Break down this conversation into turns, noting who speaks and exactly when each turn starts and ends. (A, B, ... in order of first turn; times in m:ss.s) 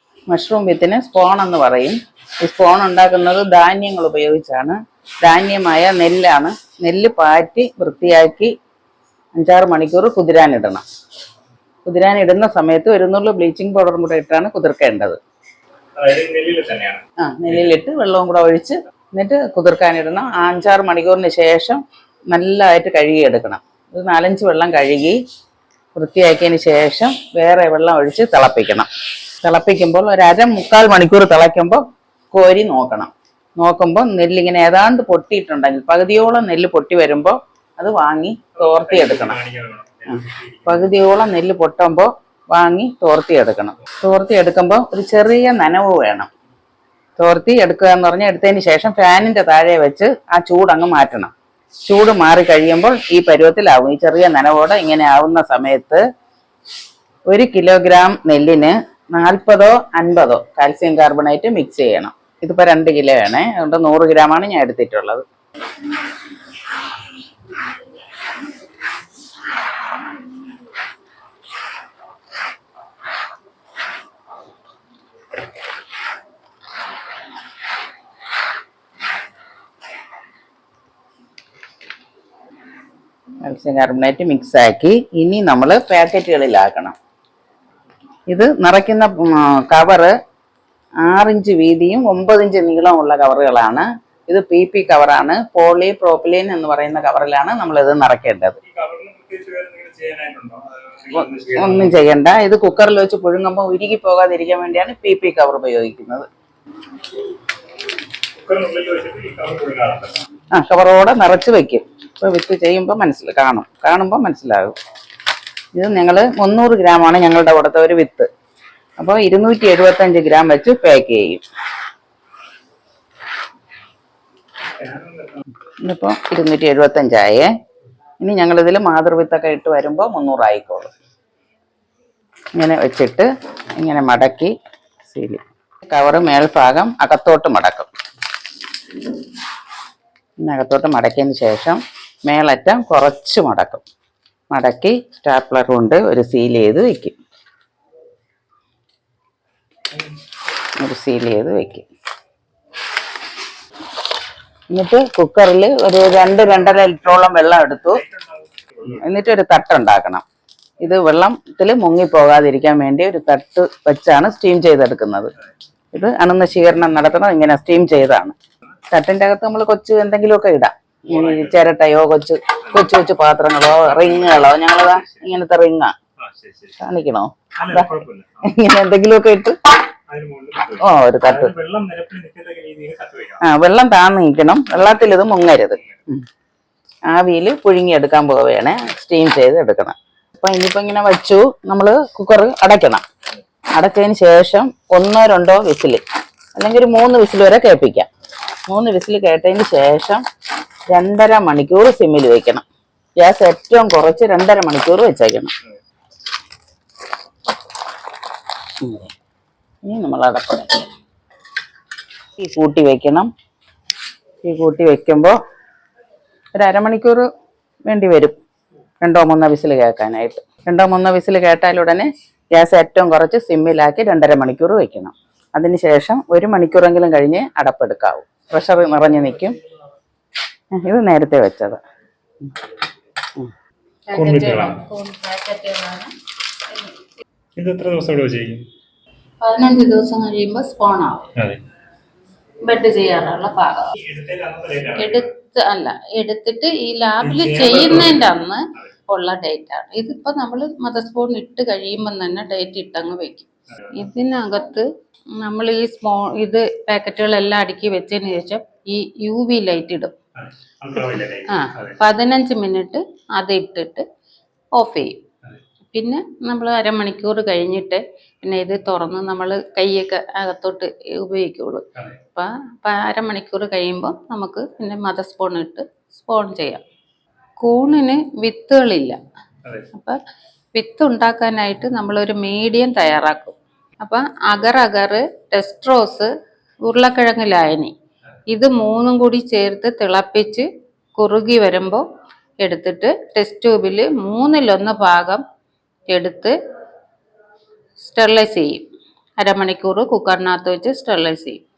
0:00.3-0:08.5 A
0:09.4-0:10.8 A
0:11.9-0:15.2 A
0:16.0-0:17.8 B
0:17.2-0:25.2 A
0:26.0-0:28.9 A
0:29.4-0:39.4 A
0:38.6-0:41.0 B
0:40.7-0:46.3 A
0:47.2-0:51.3 A
0:51.8-0:56.0 A
0:57.3-1:05.2 A
1:23.4-1:27.0 A
1:28.3-1:30.1 A
1:31.0-1:38.6 A
1:38.6-1:42.0 B
1:41.1-1:46.3 A
1:48.4-1:50.3 B
1:50.5-1:54.8 A
1:55.7-1:58.3 A
1:59.0-2:01.4 A
2:04.8-2:05.4 B
2:05.8-2:07.5 A
2:08.2-2:10.9 A
2:12.6-2:14.5 A
2:15.1-2:17.9 A
2:20.4-2:23.8 A
2:24.5-2:27.2 A
2:30.8-2:31.8 A
2:34.7-2:38.0 A
2:36.7-2:39.0 B
2:38.9-2:40.2 A
2:40.8-2:45.3 A
2:45.9-2:48.3 A
2:48.9-2:55.9 A
2:51.1-2:51.6 B
2:53.6-2:55.2 B
2:56.2-2:56.8 B
2:56.8-2:57.8 A
2:57.6-2:58.5 B
2:58.4-2:59.6 A
3:00.1-3:03.4 B
3:00.8-3:01.5 A
3:03.4-3:06.2 A
3:05.1-3:06.0 B
3:07.1-3:13.0 A
3:13.8-3:16.0 A
3:16.5-3:18.1 A
3:18.7-3:20.2 A
3:20.9-3:22.6 A
3:23.2-3:25.5 A
3:28.8-3:29.1 A
3:29.8-3:30.8 A
3:32.4-3:33.3 A
3:34.4-3:35.4 A
3:36.5-3:37.3 A
3:37.8-3:38.4 A
3:39.0-3:49.6 A
3:50.7-3:51.8 A
3:54.1-3:56.1 C
3:54.1-3:54.8 B
3:57.6-3:58.6 B
3:59.4-4:01.3 C
4:01.4-4:01.6 B
4:02.6-4:03.9 C
4:04.0-4:05.3 B
4:05.0-4:20.1 C
4:07.2-4:08.2 B
4:20.4-4:22.0 B
4:21.5-4:24.0 C
4:24.7-4:25.2 C
4:25.9-4:36.8 C
4:37.6-4:39.2 C
4:39.9-4:40.2 C
4:40.7-4:46.3 C
4:46.8-4:47.9 C
4:48.5-4:52.0 C
4:52.6-4:55.4 C
4:56.1-4:56.5 C
4:58.0-4:58.9 C
4:59.4-5:01.6 C